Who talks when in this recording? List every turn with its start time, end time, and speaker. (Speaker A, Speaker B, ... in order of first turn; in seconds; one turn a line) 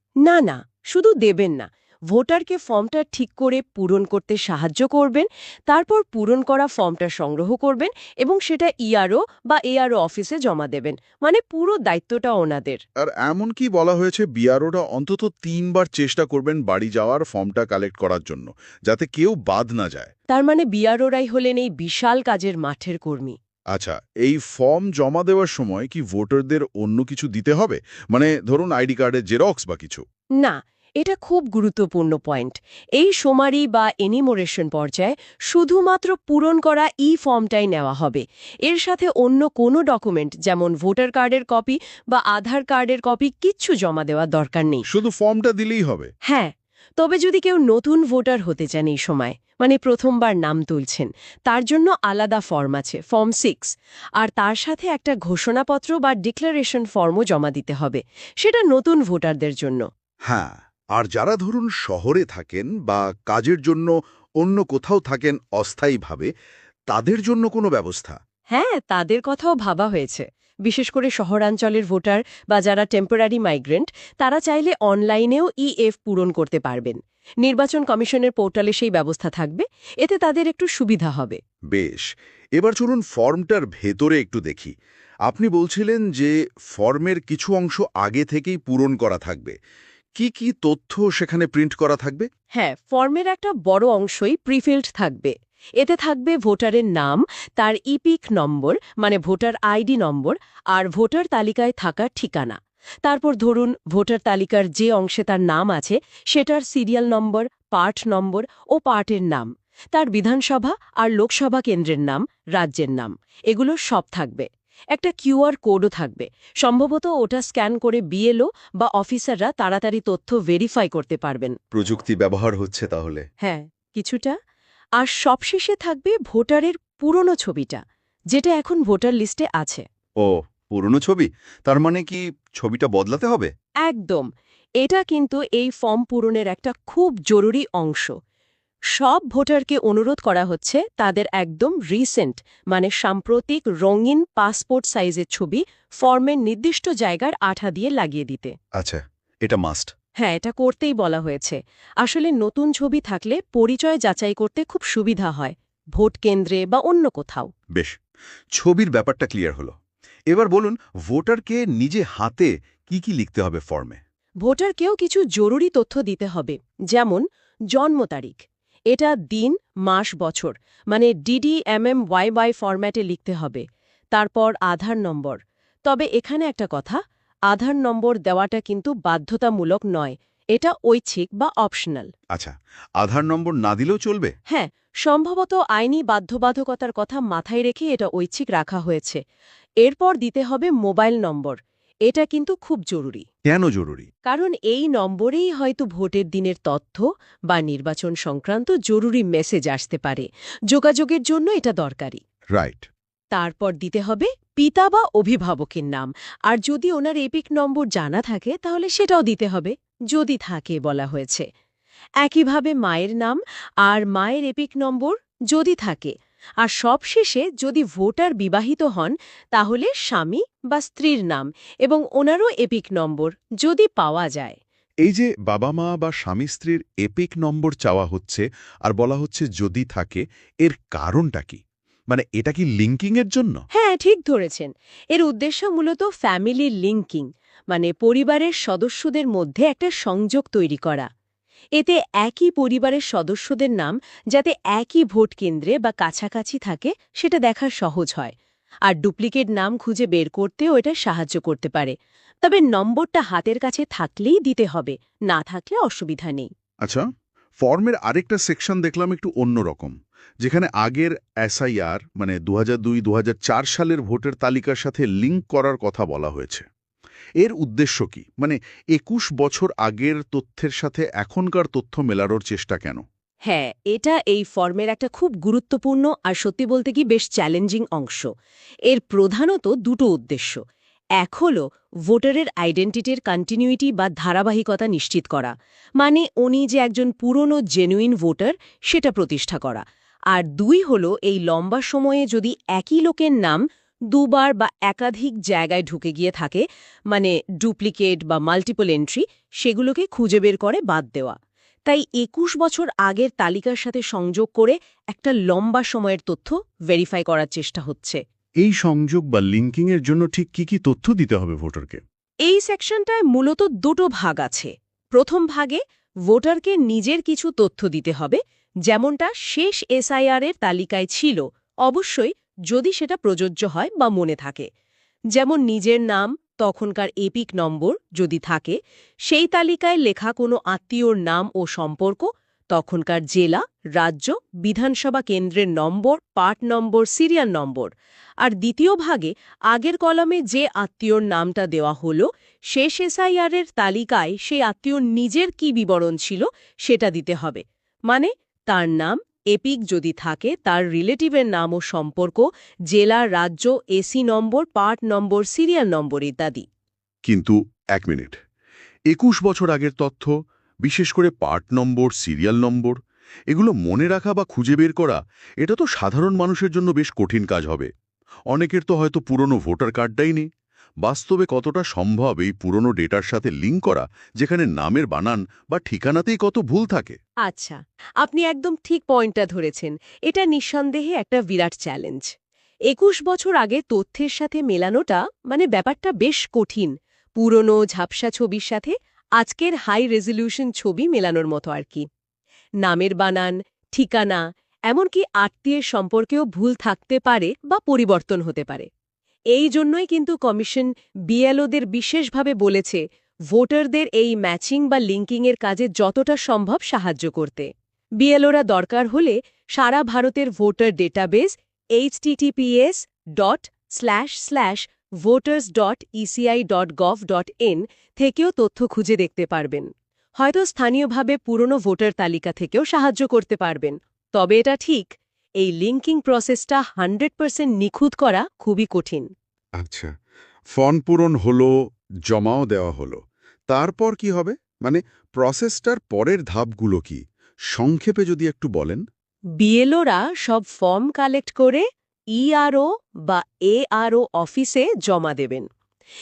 Speaker A: 0.2-12.8
Speaker B: 13.0-20.1
Speaker A: 20.3-23.4
Speaker B: 23.7-30.0
Speaker A: 30.4-44.8
Speaker B: 44.9-46.1
Speaker A: 46.2-59.9
Speaker B: 60.3-66.3
Speaker B: 66.9-68.2
Speaker A: 68.5-81.4
Speaker B: 81.7-84.7
Speaker B: 85.2-89.5
Speaker B: 90.2-92.3
Speaker A: 92.5-121.5
Speaker B: 121.7-123.2
Speaker A: 123.4-124.3
Speaker A: 125.0-127.8
Speaker A: 128.3-129.8
Speaker B: 130.2-133.5
Speaker A: 133.8-134.2
Speaker A: 134.8-138.1
Speaker A: 138.9-148.5
Speaker B: 148.8-149.9
Speaker A: 150.2-157.5
Speaker B: 158.5-159.7
Speaker B: 160.3-164.0
Speaker A: 164.4-177.0
Speaker A: 177.5-182.1
Speaker B: 182.3-184.3
Speaker A: 184.5-189.2
Speaker A: 189.8-193.2
Speaker B: 193.5-194.1
Speaker A: 194.2-202.2
Speaker B: 202.5-202.9
Speaker A: 203.3-211.4
Speaker A: 212.2-224.6
Speaker B: 225.0-233.6
Speaker A: 233.7-241.1
Speaker A: 241.8-248.3
Speaker A: 248.8-256.5
Speaker B: 257.6-266.6
Speaker B: 267.4-273.0
Speaker A: 273.4-278.3
Speaker A: 278.9-280.6
Speaker A: 281.2-308.2
Speaker B: 308.6-312.0
Speaker A: 312.4-324.7
Speaker A: 325.3-337.9
Speaker A: 338.4-356.6
Speaker B: 357.2-358.4
Speaker B: 359.1-360.3
Speaker B: 360.8-363.0
Speaker B: 363.5-367.9
Speaker B: 368.5-370.5
Speaker B: 371.0-377.2
Speaker A: 377.4-382.3
Speaker A: 382.9-392.1
Speaker A: 392.8-398.9
Speaker A: 399.5-407.7
Speaker A: 408.2-429.3
Speaker B: 429.8-430.1
Speaker B: 430.7-431.7
Speaker B: 432.3-439.0
Speaker A: 439.6-445.7